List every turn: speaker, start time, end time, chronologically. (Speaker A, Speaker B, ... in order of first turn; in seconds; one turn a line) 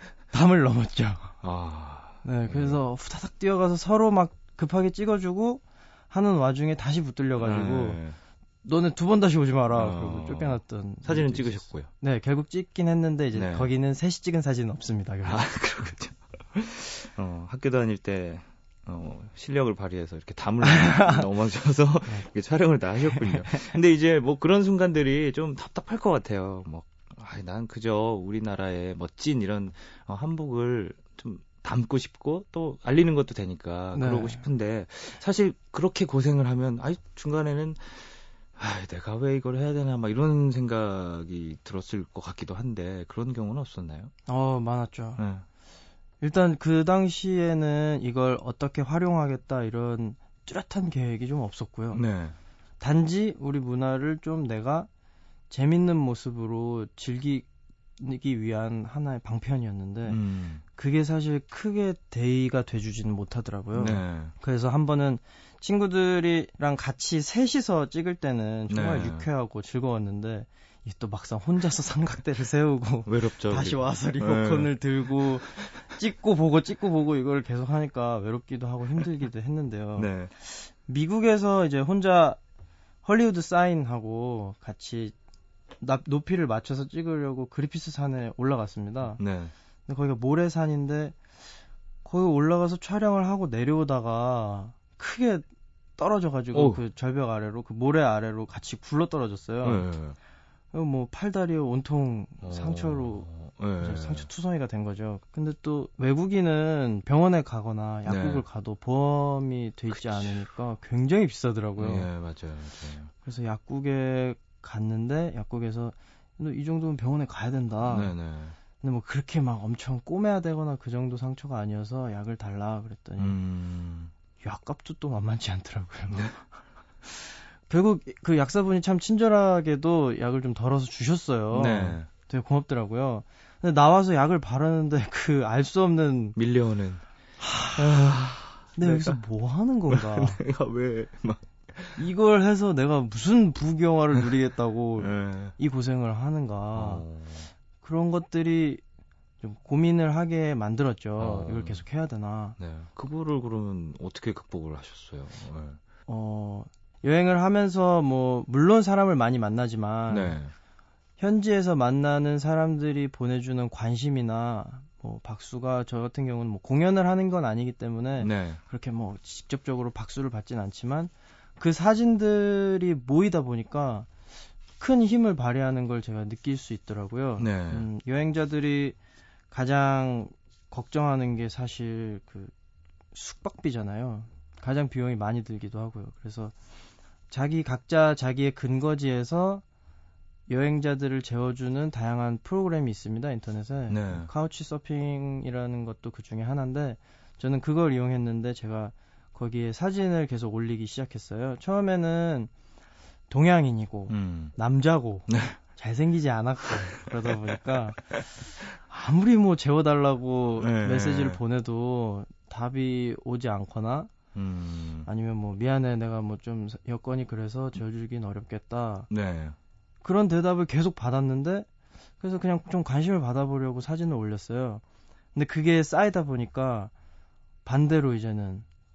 Speaker A: 0.3-1.4
Speaker B: 1.4-2.8
Speaker A: 2.2-8.0
Speaker B: 7.4-8.2
Speaker A: 8.6-15.4
Speaker B: 9.7-11.9
Speaker B: 13.3-13.7
Speaker B: 15.2-44.1
Speaker A: 20.6-21.2
Speaker A: 23.1-23.6
Speaker A: 33.9-34.4
Speaker A: 44.3-45.2
Speaker B: 45.2-45.4
Speaker A: 46.2-52.0
Speaker B: 51.9-52.4
Speaker A: 52.8-54.9
Speaker A: 55.5-57.5
Speaker A: 58.0-60.2
Speaker B: 60.1-60.6
Speaker A: 60.7-82.4
Speaker B: 63.7-64.3
Speaker B: 68.7-69.3
Speaker B: 73.0-75.7
Speaker B: 80.0-80.3
Speaker A: 83.0-85.1
Speaker A: 85.8-89.2
Speaker B: 89.2-89.5
Speaker A: 89.9-91.2
Speaker A: 92.0-95.4
Speaker A: 96.0-99.9
Speaker B: 96.5-96.8
Speaker B: 99.6-100.2
Speaker A: 100.7-103.3
Speaker B: 102.4-104.3
Speaker A: 103.8-112.1
Speaker B: 108.0-108.4
Speaker B: 109.9-110.5
Speaker B: 111.8-113.1
Speaker A: 113.2-118.1
Speaker B: 117.8-118.6
Speaker A: 118.8-123.4
Speaker B: 123.2-124.1
Speaker A: 124.4-126.4
Speaker B: 126.1-126.4
Speaker A: 127.0-136.3
Speaker B: 131.5-132.1
Speaker B: 136.3-137.0
Speaker A: 137.4-138.1
Speaker B: 137.7-139.2
Speaker A: 138.7-140.4
Speaker B: 139.9-142.0
Speaker A: 141.9-147.0
Speaker B: 145.0-145.6
Speaker B: 146.7-147.5
Speaker A: 147.8-148.8
Speaker A: 149.4-152.6
Speaker B: 151.2-151.8
Speaker B: 152.6-155.8
Speaker A: 156.1-160.4
Speaker B: 160.1-160.5
Speaker A: 161.2-174.1
Speaker B: 168.2-168.6
Speaker A: 174.8-178.9
Speaker B: 177.4-177.8
Speaker A: 179.5-182.5
Speaker A: 183.1-186.5
Speaker A: 187.3-189.6
Speaker A: 190.5-202.5
Speaker B: 193.9-194.3
Speaker A: 203.3-208.3
Speaker B: 204.1-204.5
Speaker B: 205.3-205.6
Speaker A: 208.9-214.1
Speaker B: 210.6-211.4
Speaker B: 214.3-215.1
Speaker A: 215.1-219.1
Speaker B: 219.1-219.6
Speaker A: 220.0-221.7
Speaker A: 222.2-224.8
Speaker A: 225.3-226.9
Speaker A: 227.6-228.7